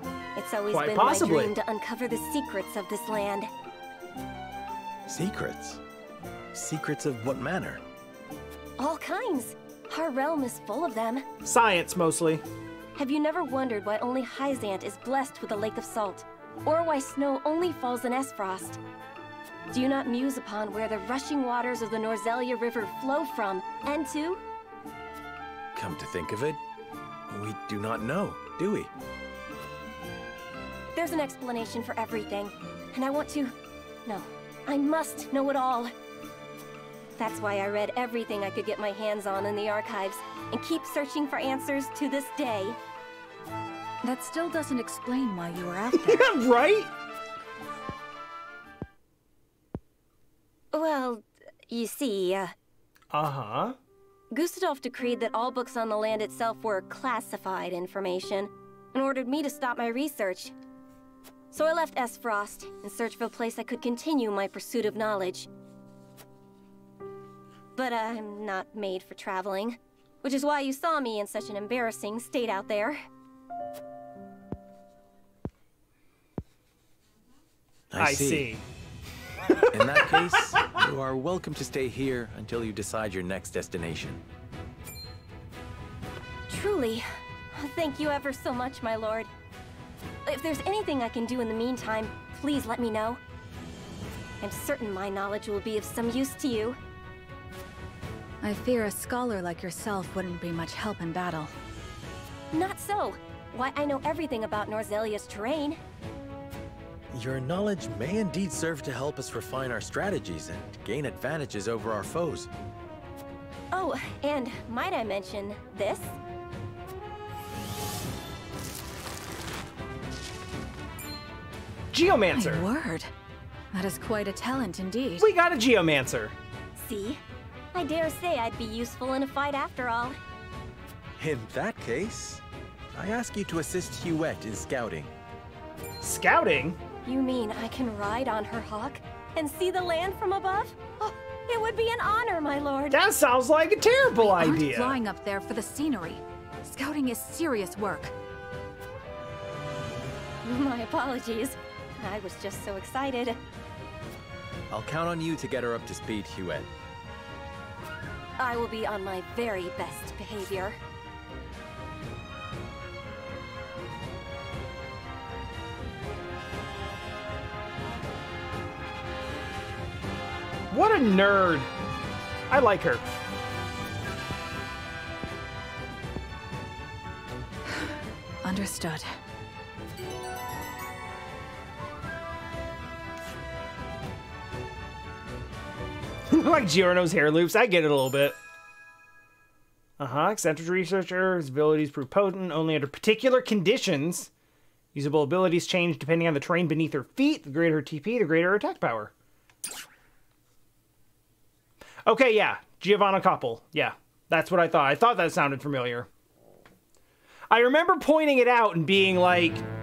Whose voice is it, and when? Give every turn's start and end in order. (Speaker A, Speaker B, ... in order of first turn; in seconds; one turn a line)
Speaker A: 0.3-3.5
Speaker B: 0.7-1.5
Speaker C: 5.1-5.8
Speaker C: 6.5-7.8
Speaker A: 8.8-11.2
Speaker B: 11.4-12.4
Speaker A: 12.9-18.8
Speaker A: 19.7-24.4
Speaker C: 25.7-26.6
Speaker C: 27.3-28.9
Speaker A: 30.9-33.5
Speaker A: 34.0-35.9
Speaker A: 37.1-42.8
Speaker D: 44.0-46.3
Speaker B: 46.0-46.9
Speaker A: 50.7-52.5
Speaker B: 53.1-53.8
Speaker A: 54.3-60.5
Speaker A: 61.5-65.5
Speaker A: 67.8-73.0
Speaker C: 77.9-78.5
Speaker B: 78.0-78.6
Speaker C: 79.7-84.2
Speaker B: 79.8-80.1
Speaker A: 86.5-89.3
Speaker A: 90.2-93.2
Speaker A: 94.4-96.8
Speaker D: 98.4-101.5
Speaker A: 102.5-105.8
Speaker C: 107.1-112.5
Speaker A: 113.7-116.1
Speaker B: 121.9-122.7
Speaker D: 122.3-123.1
Speaker D: 123.7-125.3
Speaker B: 125.2-126.3
Speaker A: 126.8-127.2
Speaker A: 127.7-130.2
Speaker C: 131.2-132.4
Speaker C: 132.9-135.1
Speaker B: 136.0-136.8
Speaker A: 137.0-143.0
Speaker B: 142.9-145.0
Speaker D: 144.2-148.1
Speaker A: 150.4-153.4
Speaker C: 154.7-156.7
Speaker A: 158.4-160.8
Speaker B: 170.7-171.7
Speaker B: 172.5-173.0
Speaker D: 178.4-179.1
Speaker B: 186.3-188.4
Speaker B: 190.0-194.3
Speaker B: 194.9-199.1
Speaker B: 202.1-206.1
Speaker B: 207.5-209.6